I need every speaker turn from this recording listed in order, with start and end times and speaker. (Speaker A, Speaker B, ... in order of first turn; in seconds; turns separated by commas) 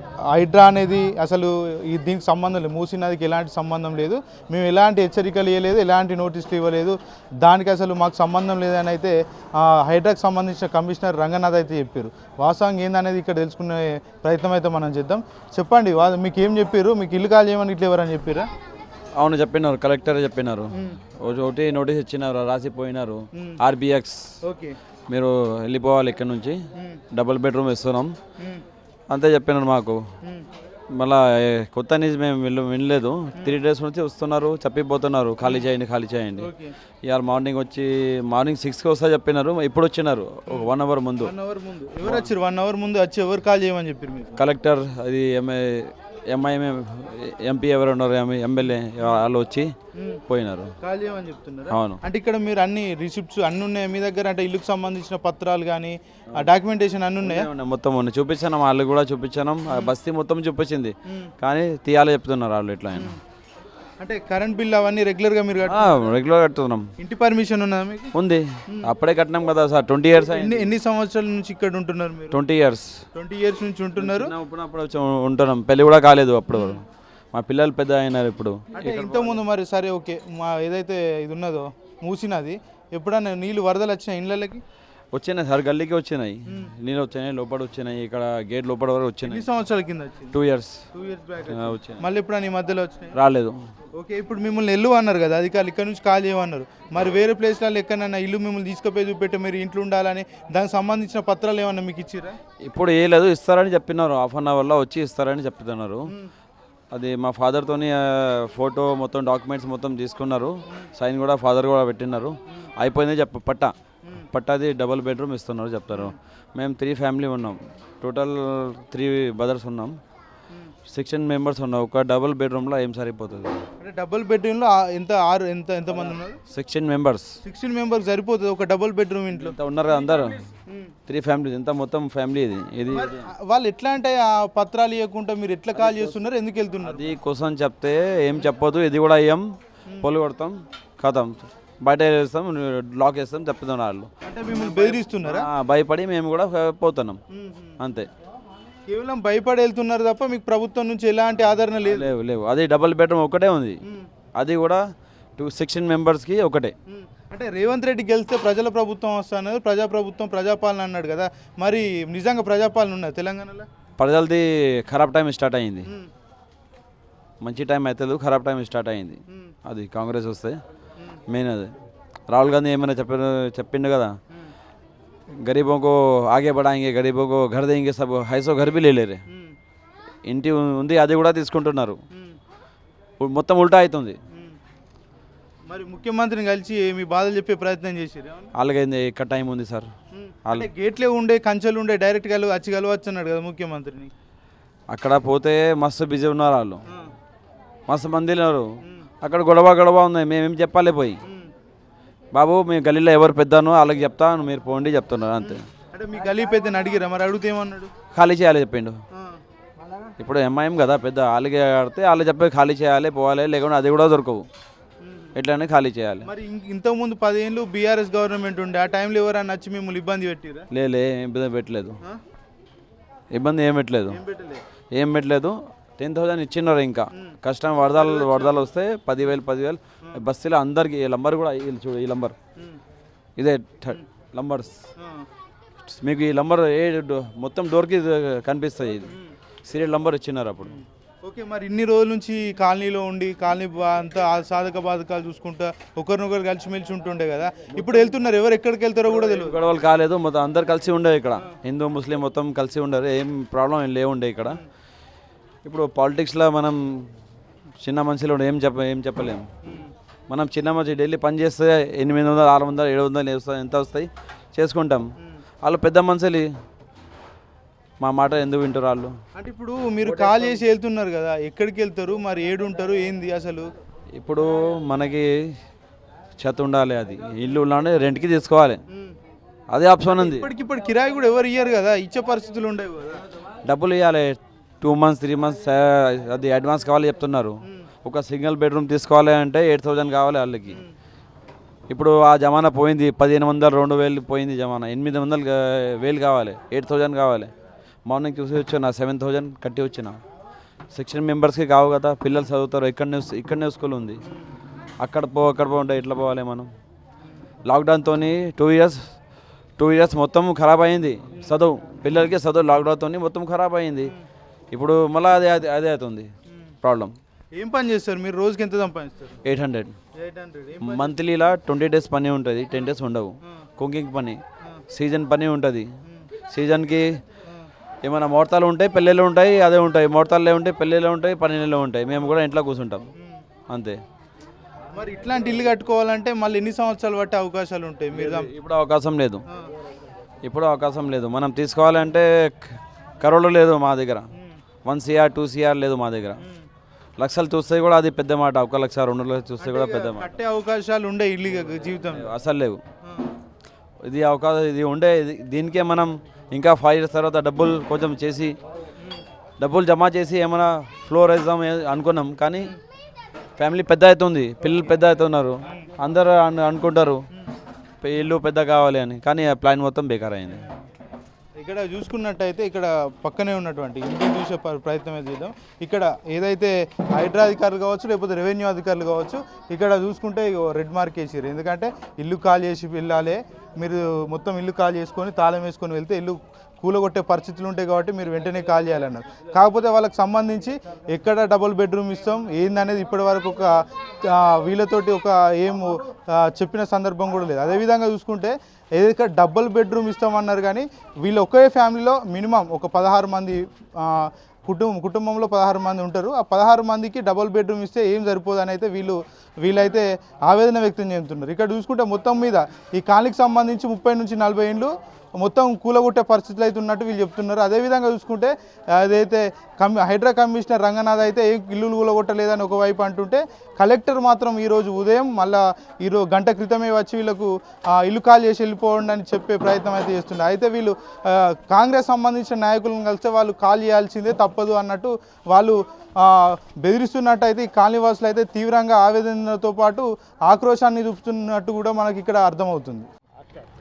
Speaker A: 0.3-18.5, Speaker B: 19.2-24.2, Speaker A: 20.8-21.0, Speaker A: 24.4-24.8, Speaker B: 25.1-26.6, Speaker A: 26.8-27.0, Speaker B: 27.1-28.1, Speaker B: 29.1-30.0, Speaker B: 30.9-36.5, Speaker A: 36.4-36.7, Speaker B: 37.0-41.3, Speaker A: 40.5-44.4, Speaker B: 42.0-42.3, Speaker B: 44.4-49.7, Speaker A: 50.0-50.2, Speaker B: 50.3-50.7, Speaker A: 50.8-57.5, Speaker B: 51.7-52.0, Speaker B: 57.2-63.1, Speaker A: 64.0-66.0, Speaker B: 65.7-66.9, Speaker A: 67.0-68.1, Speaker B: 68.1-70.7, Speaker A: 70.1-72.4, Speaker B: 72.3-73.0, Speaker A: 73.1-74.3, Speaker B: 74.0-79.4, Speaker A: 76.5-76.8, Speaker A: 78.8-84.6, Speaker B: 85.1-89.5, Speaker A: 89.2-90.4, Speaker B: 90.3-90.8, Speaker A: 90.9-93.1, Speaker B: 91.5-92.0, Speaker B: 93.1-93.6, Speaker A: 94.0-102.4, Speaker B: 102.6-106.1, Speaker B: 106.9-113.7, Speaker B: 114.3-120.0, Speaker B: 120.9-123.6, Speaker A: 123.8-126.4, Speaker B: 126.5-127.3, Speaker A: 127.4-130.9, Speaker B: 129.3-130.4, Speaker B: 131.1-133.3, Speaker A: 132.9-137.1, Speaker B: 135.8-136.1, Speaker B: 136.8-139.4, Speaker B: 140.0-147.2, Speaker A: 144.2-145.5, Speaker A: 147.3-147.8, Speaker B: 147.8-148.1, Speaker A: 148.9-152.1, Speaker B: 151.8-153.8, Speaker A: 153.8-154.1, Speaker B: 154.4-154.8, Speaker B: 155.4-156.8, Speaker A: 156.9-163.7, Speaker B: 164.0-165.9, Speaker B: 167.4-170.6, Speaker A: 169.3-169.6, Speaker B: 171.3-171.7, Speaker B: 172.3-174.1, Speaker B: 175.4-179.2, Speaker A: 179.3-179.6, Speaker B: 180.2-182.0, Speaker A: 182.1-182.4, Speaker B: 183.2-184.2, Speaker A: 184.3-184.6, Speaker A: 185.7-188.5, Speaker B: 188.6-189.9, Speaker A: 190.1-194.1, Speaker B: 194.9-196.8, Speaker B: 197.9-198.7, Speaker B: 199.2-201.2, Speaker A: 201.2-201.5, Speaker B: 202.3-205.7, Speaker A: 205.4-207.9, Speaker B: 208.1-209.0, Speaker A: 209.1-209.4, Speaker B: 210.2-214.4, Speaker A: 215.0-215.3, Speaker B: 215.3-216.3, Speaker A: 216.2-220.7, Speaker B: 220.7-222.0, Speaker B: 223.3-224.2, Speaker A: 224.1-224.6, Speaker B: 224.9-232.3, Speaker A: 227.9-228.7, Speaker B: 233.4-234.8, Speaker A: 235.0-235.2, Speaker B: 235.8-239.1, Speaker A: 239.1-239.3, Speaker B: 239.7-240.8, Speaker A: 240.7-249.6, Speaker B: 247.7-248.0, Speaker B: 249.1-254.6, Speaker B: 255.7-257.1, Speaker B: 257.8-259.5, Speaker A: 259.6-259.9, Speaker B: 260.3-265.1, Speaker B: 265.6-266.5, Speaker B: 268.0-269.1, Speaker A: 269.4-273.7, Speaker B: 274.2-275.3, Speaker B: 276.4-278.8, Speaker A: 278.9-279.2, Speaker B: 279.7-280.5, Speaker A: 280.1-283.2, Speaker B: 283.6-290.8, Speaker B: 291.9-297.5, Speaker B: 298.1-300.2, Speaker B: 300.9-304.2, Speaker B: 305.0-306.7, Speaker B: 307.7-309.0, Speaker B: 309.8-314.1, Speaker B: 314.7-316.3, Speaker B: 316.8-317.1, Speaker A: 317.6-319.4, Speaker B: 319.4-319.9, Speaker A: 320.2-321.2, Speaker B: 320.8-324.4, Speaker B: 324.9-325.9, Speaker B: 326.5-327.1, Speaker B: 328.0-333.1, Speaker A: 333.2-333.4, Speaker B: 333.7-334.0, Speaker A: 334.9-338.5, Speaker B: 338.1-339.4, Speaker B: 340.4-344.3, Speaker B: 344.9-346.4, Speaker A: 346.4-346.7, Speaker B: 347.2-350.3, Speaker A: 349.6-352.3, Speaker B: 352.1-352.8, Speaker A: 353.1-353.3, Speaker B: 354.0-358.6, Speaker B: 359.6-362.7, Speaker B: 363.6-367.2, Speaker B: 368.0-370.6, Speaker A: 370.6-370.8, Speaker A: 371.6-443.1